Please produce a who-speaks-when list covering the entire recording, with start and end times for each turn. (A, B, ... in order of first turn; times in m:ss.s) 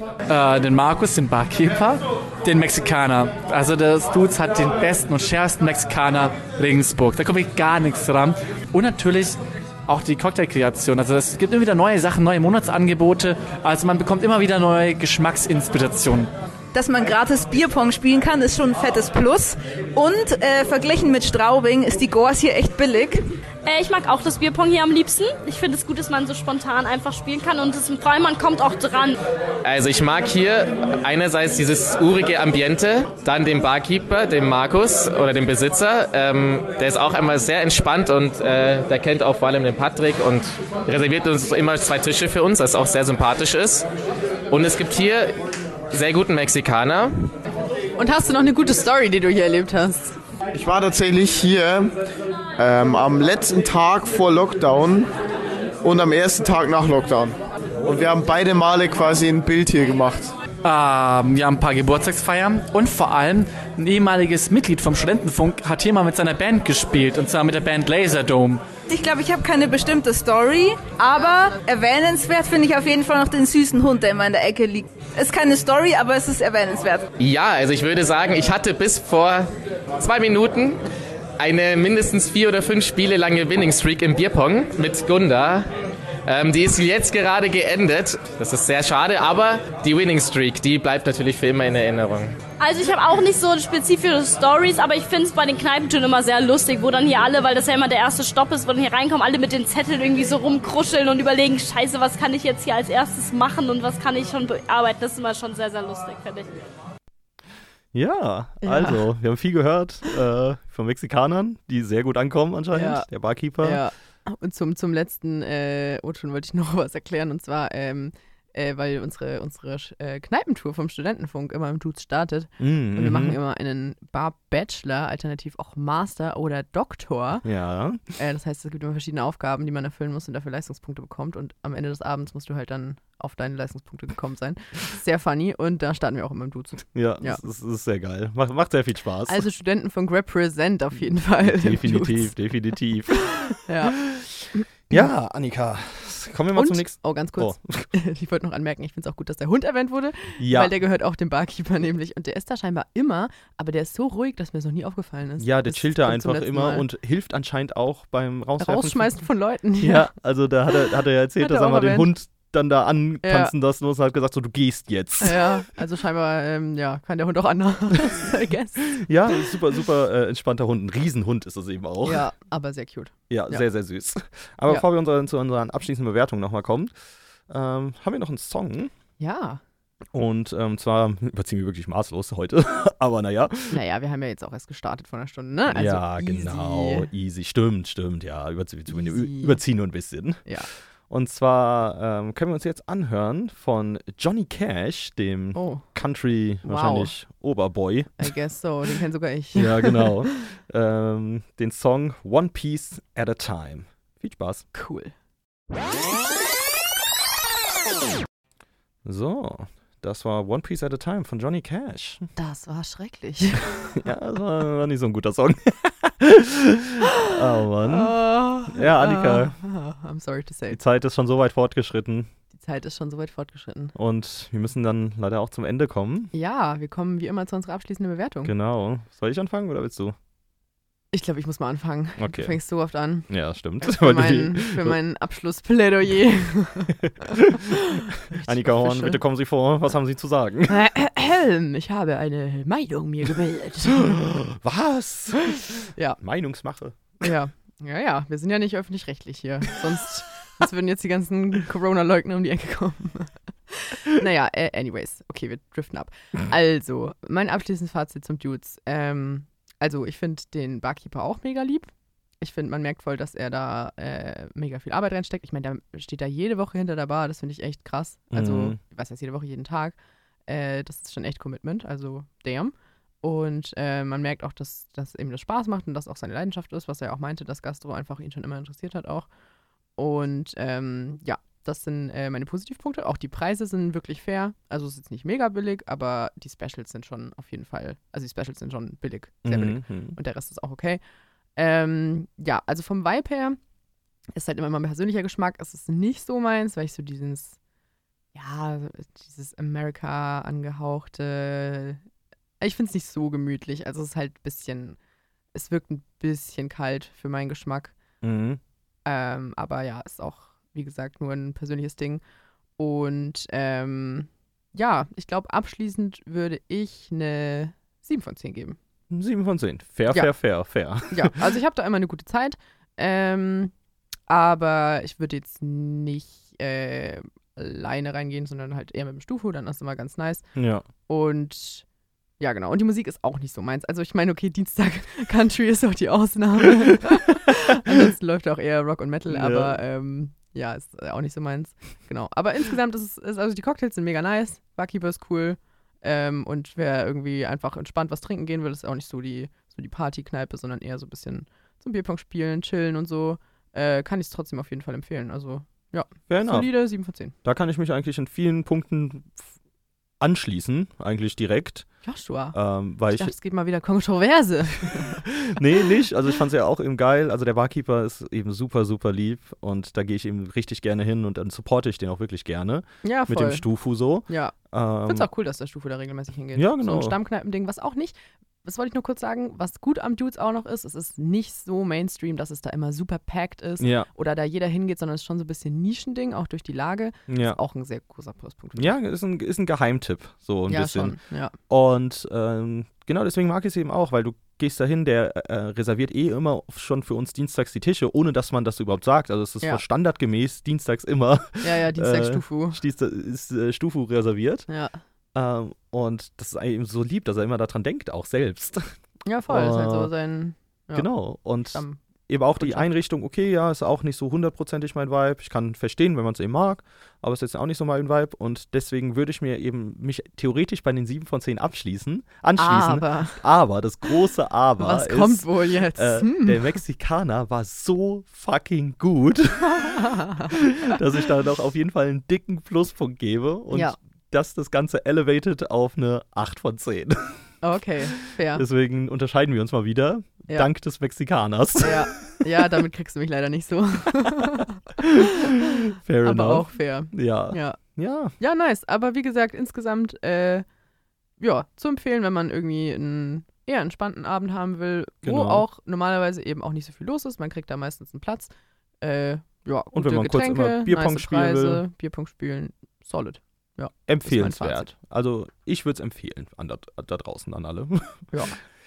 0:00.3-0:09.4 A
0:09.9-0:16.3 A
0:16.7-0:23.2 B
0:23.6-0:29.1 C
0:29.6-0:43.9 D
0:44.5-0:45.4 D
0:45.9-0:47.3 D
0:48.0-0:50.1 E
0:50.5-0:51.9 F
0:52.6-0:55.1 F
0:55.8-1:00.3 F
1:00.6-1:08.6 A
1:08.9-1:17.1 B
1:17.2-1:20.8 D
1:21.4-1:25.7 D
1:26.2-1:32.3 D
1:32.6-1:46.5 C
1:47.9-1:53.8 G
1:48.6-1:49.0 E
1:52.7-1:53.1 E
1:53.6-2:07.4 E
2:02.6-2:03.4 G
2:07.4-2:08.0 G
2:08.2-2:17.4 E
2:16.9-2:19.4 G
2:19.3-2:22.3 E
2:21.4-2:27.9 G
2:23.5-2:24.0 E
2:26.6-2:36.9 E
2:30.4-2:30.7 G
2:35.4-2:39.1 G
2:38.6-2:40.1 E
2:39.8-2:45.5 G
2:41.4-2:42.1 E
2:43.2-2:43.5 E
2:45.2-2:48.9 E
2:48.9-2:52.2 G
2:52.0-2:53.6 E
2:53.3-2:56.9 G
2:57.5-2:58.9 G
2:59.2-2:59.6 E
3:00.1-3:03.8 G
3:03.7-3:07.1 E
3:05.7-3:10.4 G
3:08.9-3:09.6 E
3:11.1-3:18.3 G
3:15.6-3:15.8 E
3:16.6-3:17.1 E
3:18.2-3:20.4 E
3:19.6-3:24.7 G
3:24.7-3:25.1 E
3:29.0-3:32.3 G
3:32.4-3:34.0 E
3:34.0-3:39.6 G
3:37.8-3:40.8 E
3:40.7-3:42.3 G
3:42.6-3:44.0 E
3:44.0-3:46.3 G
3:46.3-3:48.5 E
3:48.4-3:50.1 G
3:51.1-3:53.3 E
3:52.2-3:52.6 G
3:53.3-3:55.0 G
3:53.8-3:57.0 E
3:57.3-3:57.7 G
3:57.7-3:59.2 E
3:58.3-4:00.8 G
4:00.7-4:04.2 E
4:03.9-4:07.0 G
4:07.2-4:21.9 E
4:22.4-4:30.0 E
4:28.3-4:28.8 G
4:30.5-4:39.3 E
4:40.0-4:51.0 E
4:49.4-4:50.2 G
4:51.6-4:53.6 E
4:54.3-4:57.6 E
4:58.3-5:02.0 E
5:02.6-5:05.0 E
5:05.5-5:08.0 E
5:08.2-5:08.6 G
5:09.0-5:12.2 E
5:12.8-5:18.8 E
5:19.1-5:21.4 G
5:21.1-5:23.7 E
5:24.3-5:30.5 E
5:30.6-5:30.9 G
5:31.1-5:31.8 E
5:32.4-5:57.3 E
5:39.3-5:39.8 G
5:56.3-5:56.7 G
5:57.4-5:59.4 G
6:00.2-6:01.9 G
6:02.0-6:02.6 E
6:02.5-6:03.3 G
6:03.1-6:05.2 E
6:05.0-6:15.3 G
6:13.0-6:13.7 E
6:14.3-6:14.6 E
6:15.1-6:29.0 E
6:16.6-6:17.2 G
6:23.8-6:24.1 G
6:27.3-6:27.6 G
6:28.8-6:44.7 G
6:30.7-6:31.6 E
6:41.6-6:42.8 E
6:44.7-6:45.0 E
6:45.3-6:48.9 G
6:49.3-6:51.1 E
6:49.5-6:50.1 G
6:50.9-7:17.4 G
6:51.7-6:52.0 E
6:52.6-6:52.9 E
7:02.6-7:03.4 E
7:04.8-7:06.7 E
7:09.7-7:10.6 E
7:17.6-7:18.6 E
7:18.5-7:22.4 G
7:21.8-7:27.8 E
7:25.0-7:28.3 G
7:28.4-7:30.6 E
7:31.4-7:38.5 E
7:35.2-7:35.7 G
7:39.0-7:44.9 E
7:39.9-7:41.8 G
7:44.1-7:48.3 G